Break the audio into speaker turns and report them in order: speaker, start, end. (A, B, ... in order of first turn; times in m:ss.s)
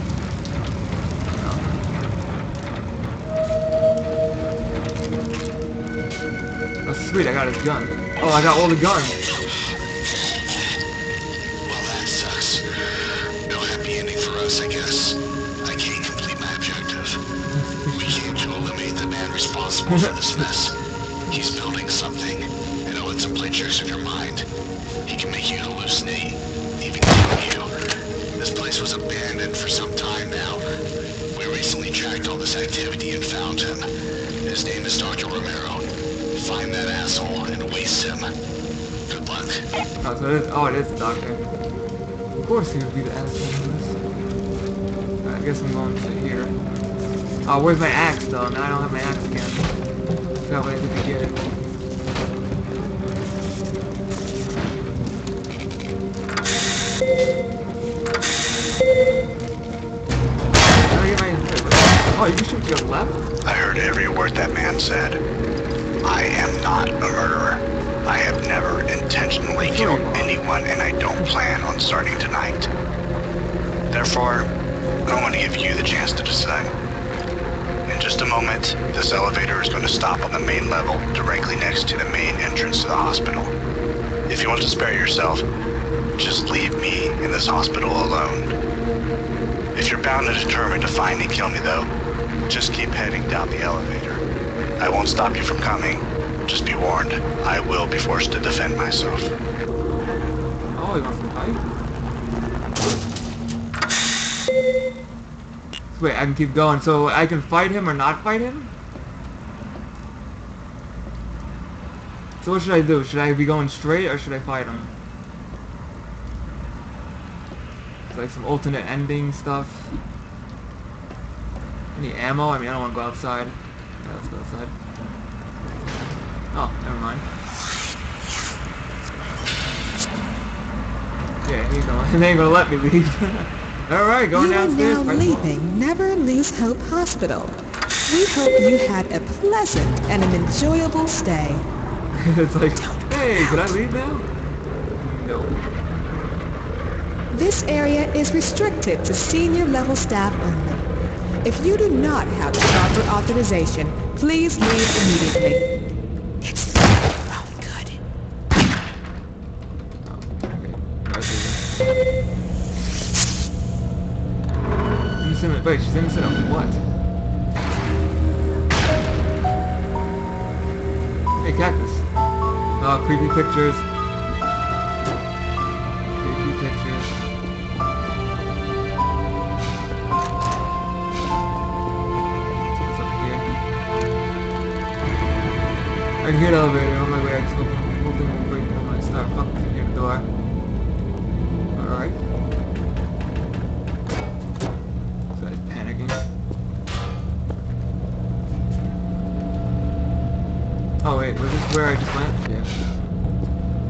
0:01.3-0:01.7 A
0:06.8-0:09.2 A
0:11.6-0:12.7 B
0:13.5-0:17.2 B
0:17.5-0:18.2 A
0:17.9-0:24.5 B
0:19.9-0:20.5 A
0:25.0-0:30.7 B
0:31.3-0:33.9 B
0:34.4-0:38.3 B
0:39.1-0:39.6 B
0:40.0-0:41.4 A
0:42.4-0:44.0 A
0:45.2-0:46.6 A
0:47.4-0:49.7 A
0:50.4-0:51.5 A
1:00.7-1:03.2 A
1:03.4-1:05.2 B
1:06.0-1:12.7 B
1:09.6-1:10.4 A
1:13.9-1:14.5 B
1:15.0-1:16.7 B
1:17.9-1:23.5 B
1:24.3-1:25.4 B
1:26.2-1:28.5 B
1:29.7-1:31.9 B
1:32.5-1:34.2 B
1:34.8-1:39.3 B
1:40.7-1:41.6 A
1:45.9-1:48.7 A
1:52.4-1:54.9 A
1:58.1-1:59.9 A
2:01.9-2:04.7 A
2:06.5-2:07.2 A
2:11.4-2:15.5 A
2:14.3-2:21.6 C
2:22.1-2:24.2 A
2:22.8-2:23.6 C
2:25.0-2:25.6 A
2:27.3-2:30.8 C
2:31.4-2:35.7 C
2:36.4-2:38.0 C
2:40.0-2:41.6 A
2:45.2-2:46.8 A
2:51.4-2:52.0 A
2:52.8-2:53.8 A
2:56.2-2:57.1 A
3:02.8-3:03.5 A
3:06.2-3:10.3 A
3:11.7-3:12.2 A
3:15.3-3:16.2 A
3:21.0-3:22.8 A